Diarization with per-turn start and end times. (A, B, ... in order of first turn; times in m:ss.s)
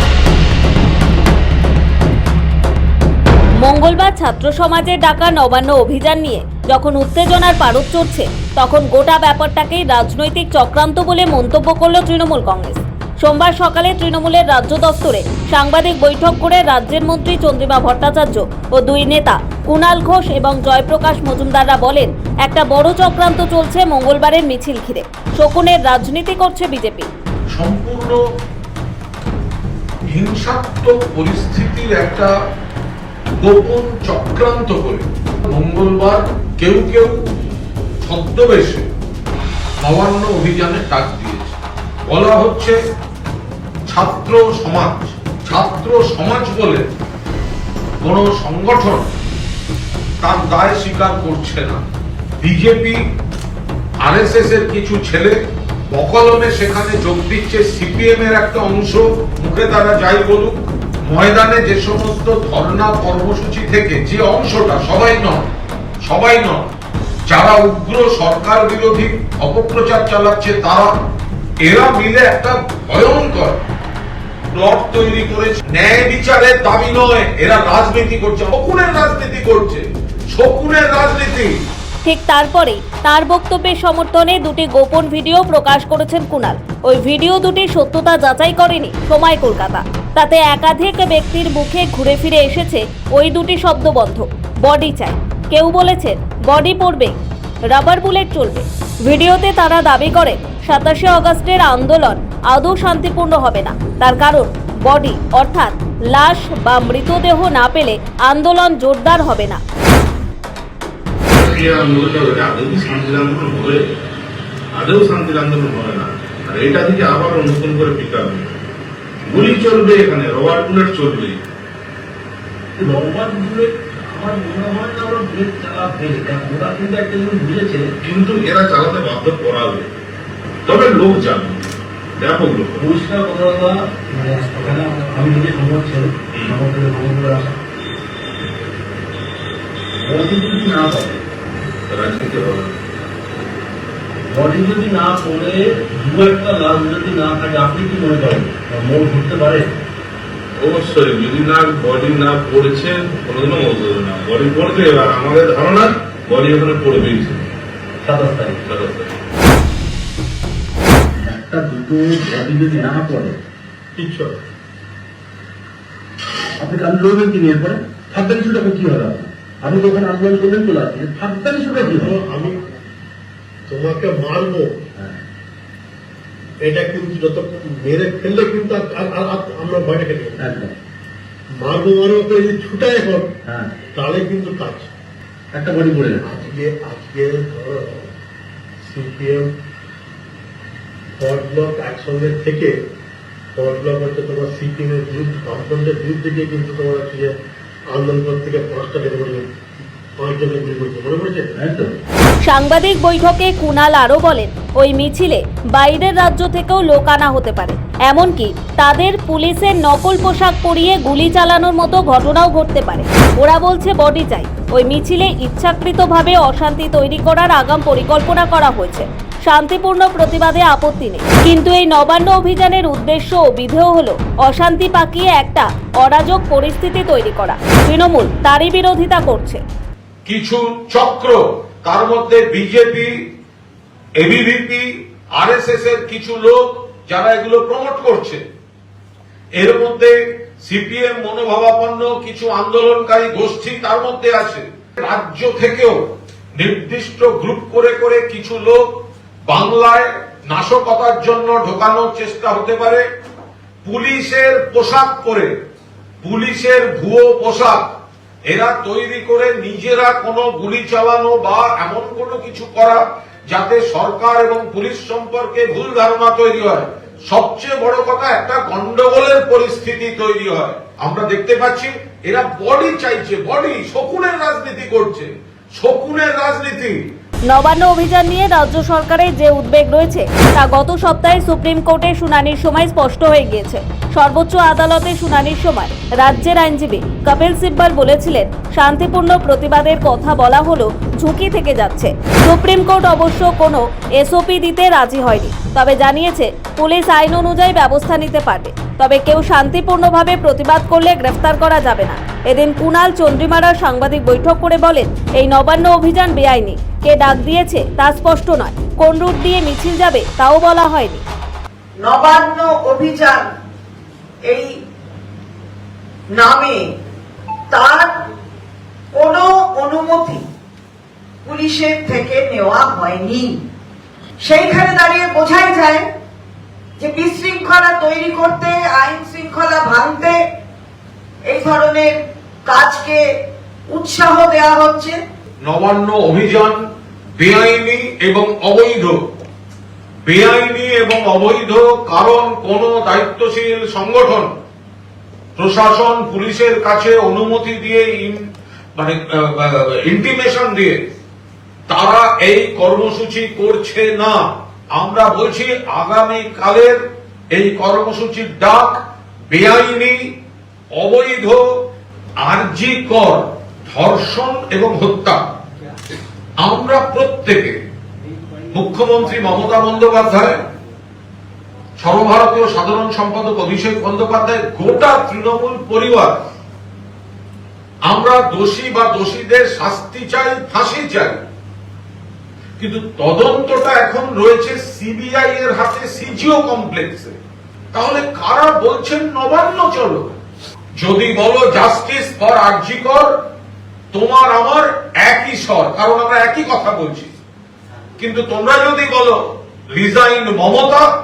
0:03.6-0:27.1 A
0:27.6-0:28.2 B
0:30.1-0:32.3 B
0:33.4-0:37.2 B
0:38.0-0:38.8 B
0:39.8-0:42.8 B
0:43.9-0:46.9 B
0:48.0-0:49.1 B
0:50.2-0:51.8 B
0:52.4-0:53.0 B
0:54.0-0:55.4 B
0:55.9-1:05.4 B
1:06.0-1:06.7 B
1:07.3-1:10.9 B
1:11.6-1:13.6 B
1:14.5-1:21.5 B
1:22.0-1:37.2 A
1:37.7-1:49.6 A
1:51.3-1:53.8 C
1:54.7-1:58.6 C
1:59.2-2:01.4 C
2:02.8-2:07.8 D
2:08.0-2:09.9 C
2:10.6-2:12.8 C
2:12.8-2:17.6 D
2:20.0-2:21.2 D
2:21.9-2:22.7 C
2:24.3-2:29.7 D
2:30.6-2:37.5 C
2:38.0-2:38.6 D
2:38.6-2:39.2 C
2:41.2-2:43.4 D
2:44.0-2:44.4 E
2:46.6-2:52.2 D
2:51.7-2:52.6 E
2:53.7-2:54.7 E
2:56.6-3:00.4 E
3:00.4-3:00.7 D
3:01.5-3:03.3 E
3:03.5-3:03.8 D
3:03.9-3:04.9 E
3:05.5-3:06.3 D
3:06.2-3:08.1 E
3:08.8-3:09.5 E
3:11.2-3:12.7 E
3:13.6-3:17.3 E
3:17.9-3:19.5 E
3:20.2-3:21.5 E
3:21.5-3:21.9 D
3:22.5-3:49.6 A
3:50.2-3:53.1 B
3:54.2-3:58.4 B
3:59.6-4:06.0 B
4:06.6-4:08.9 B
4:09.5-4:13.0 B
4:13.8-4:15.5 B
4:16.2-4:17.8 B
4:18.5-4:37.0 B
4:37.5-5:11.2 A
5:12.0-5:13.5 F
5:14.4-5:14.7 F
5:16.3-5:16.9 F
5:17.7-5:18.2 F
5:19.1-5:20.4 F
5:21.4-5:23.6 F
5:24.4-5:26.1 F
5:27.0-5:30.4 F
5:31.4-5:33.3 F
5:33.9-5:35.2 F
5:35.6-5:36.8 B
5:37.4-5:39.2 B
5:40.2-5:44.5 B
5:45.6-5:48.4 B
5:49.0-5:51.0 B
5:51.9-5:54.4 B
5:55.0-5:57.0 B
5:57.5-5:59.0 B
5:59.5-6:00.2 B
6:01.0-6:01.6 B
6:02.4-6:05.4 B
6:06.6-6:07.8 B
6:08.7-6:10.6 B
6:12.0-6:16.4 B
6:18.1-6:21.4 B
6:22.8-6:27.4 B
6:27.9-6:30.3 B
6:31.0-6:33.3 B
6:34.1-6:37.3 B
6:38.2-6:39.4 B
6:39.9-6:41.0 B